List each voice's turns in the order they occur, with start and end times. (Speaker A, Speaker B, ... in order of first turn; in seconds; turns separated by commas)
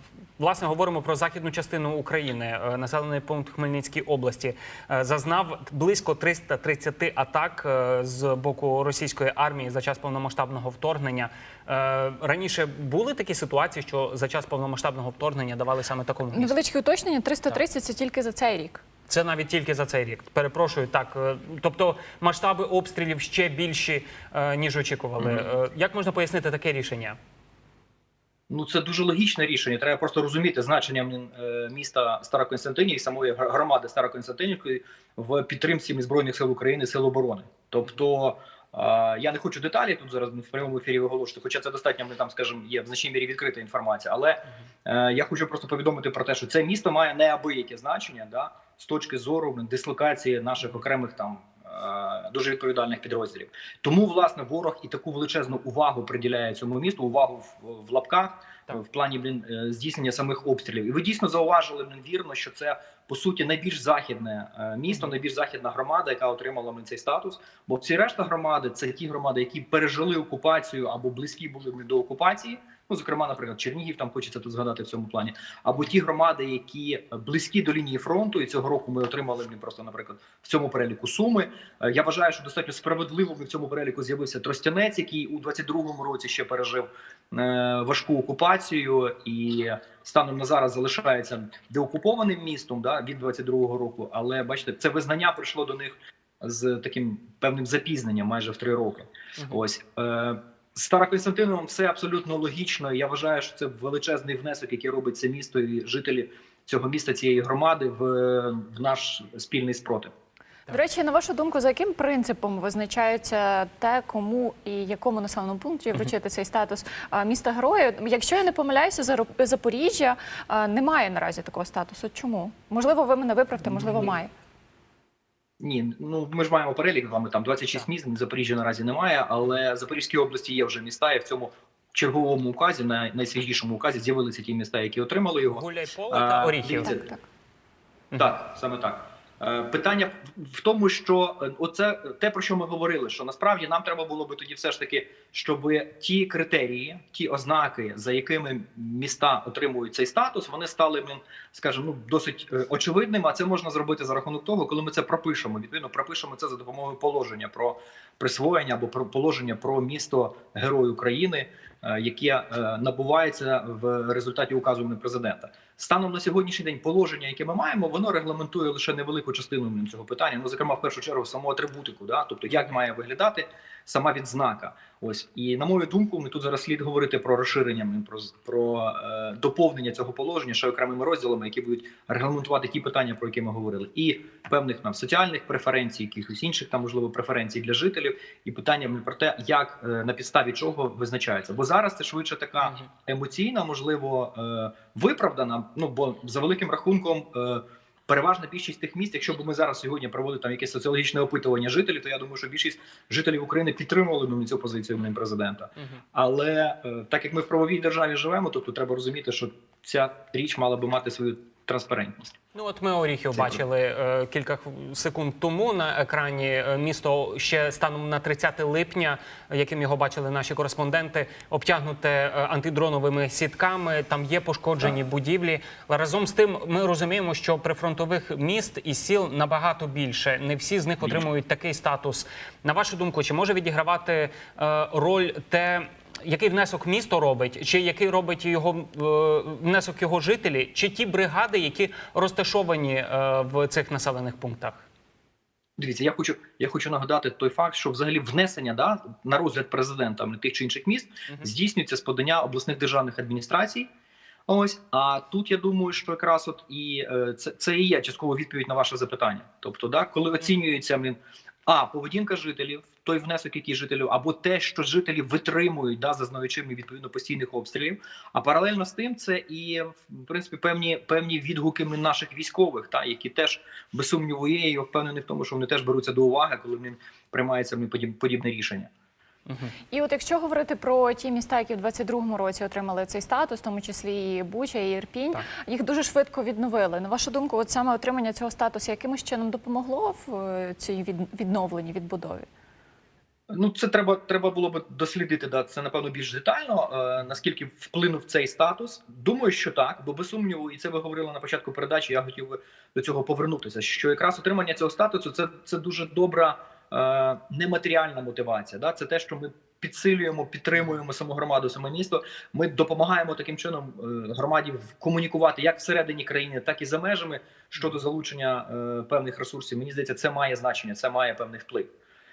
Speaker A: 0.4-16.5, Speaker B: 16.3-18.8, Speaker A: 19.1-27.2, Speaker C: 25.2-25.4, Speaker C: 28.5-110.1, Speaker B: 110.7-124.3, Speaker C: 123.7-124.2, Speaker C: 125.6-137.1, Speaker A: 135.5-136.9, Speaker B: 136.8-137.2, Speaker C: 138.2-212.3, Speaker A: 192.6-192.9, Speaker A: 212.5-244.8, Speaker C: 213.3-213.6, Speaker C: 245.8-253.9, Speaker C: 254.5-278.9, Speaker A: 279.5-279.7, Speaker B: 279.9-292.5, Speaker C: 293.5-321.9